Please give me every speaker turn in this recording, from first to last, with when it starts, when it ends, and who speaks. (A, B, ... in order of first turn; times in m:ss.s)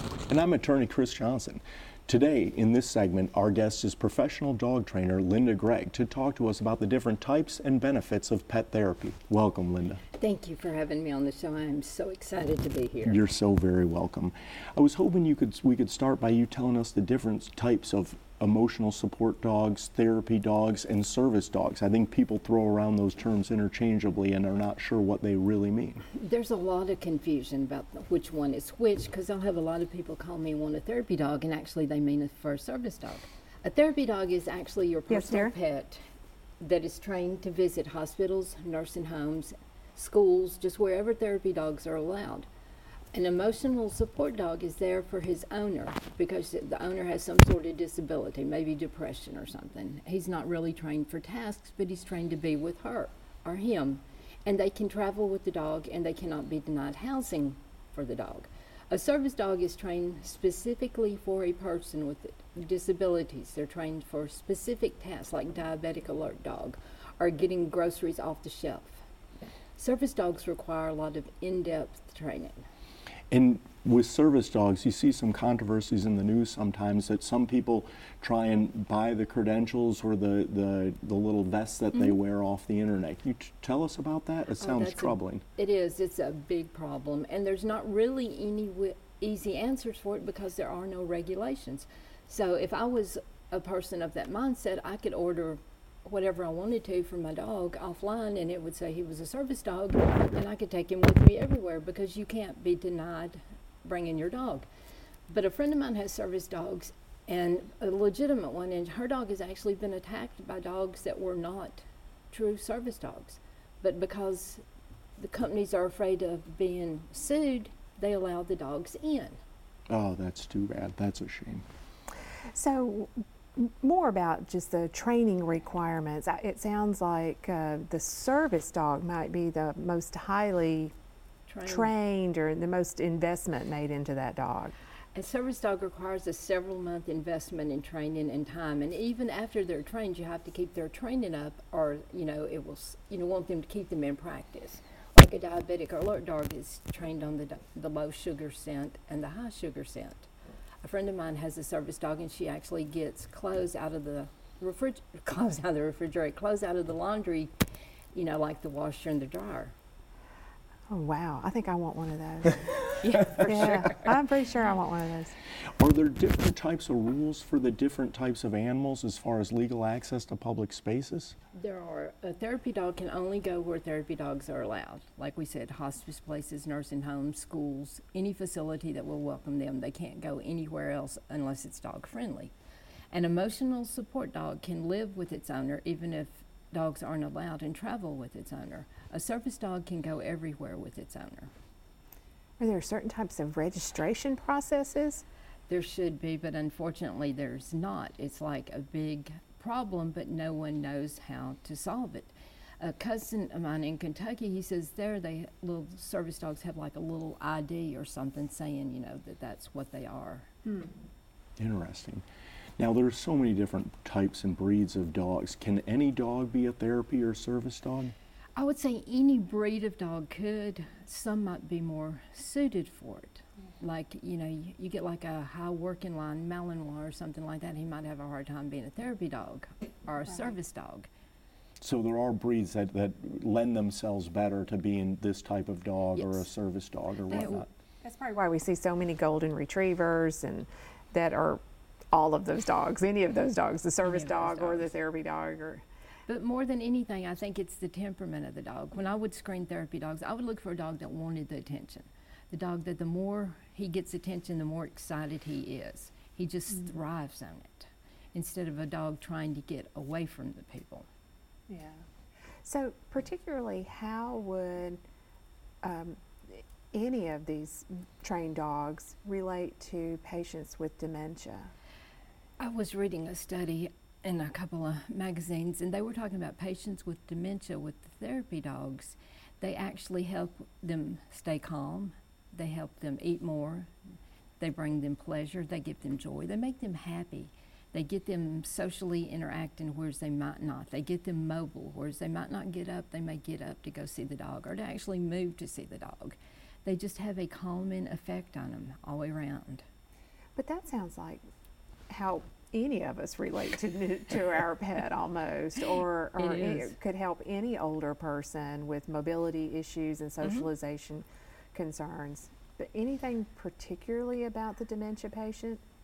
0:00.3-0:10.0 A
0:10.1-0:13.2 B
0:13.0-0:26.0 A
0:26.1-0:36.0 B
0:35.1-0:35.6 C
0:36.6-0:42.4 B
0:43.1-1:09.0 B
1:09.8-1:12.6 B
1:13.3-1:25.4 A
1:24.6-1:44.7 B
1:45.3-1:54.6 B
1:55.2-1:59.4 B
1:59.9-2:01.6 A
2:02.5-2:10.9 C
2:11.5-2:11.9 B
2:11.6-2:14.8 C
2:15.2-2:30.3 B
2:30.8-2:37.5 B
2:38.1-2:39.7 B
2:40.9-2:45.3 C
2:43.0-2:44.2 B
2:45.8-2:51.3 A
2:51.5-3:02.5 B
3:03.1-3:11.5 B
3:12.6-3:15.2 C
3:15.7-3:30.6 B
3:31.6-3:32.2 A
3:32.8-3:38.1 A
3:38.6-3:51.1 B
3:51.8-3:57.7 A
3:56.2-3:56.5 B
3:57.3-3:57.7 B
3:58.0-4:01.6 C
4:02.1-4:05.8 C
4:04.0-4:05.0 B
4:06.3-4:21.1 B
4:21.7-4:22.0 C
4:22.6-4:25.0 C
4:25.8-4:31.7 C
4:32.6-4:43.9 B
4:44.6-4:59.8 B
5:00.6-5:01.4 C
5:02.1-5:15.8 C
5:06.4-5:06.9 B
5:10.4-5:10.7 B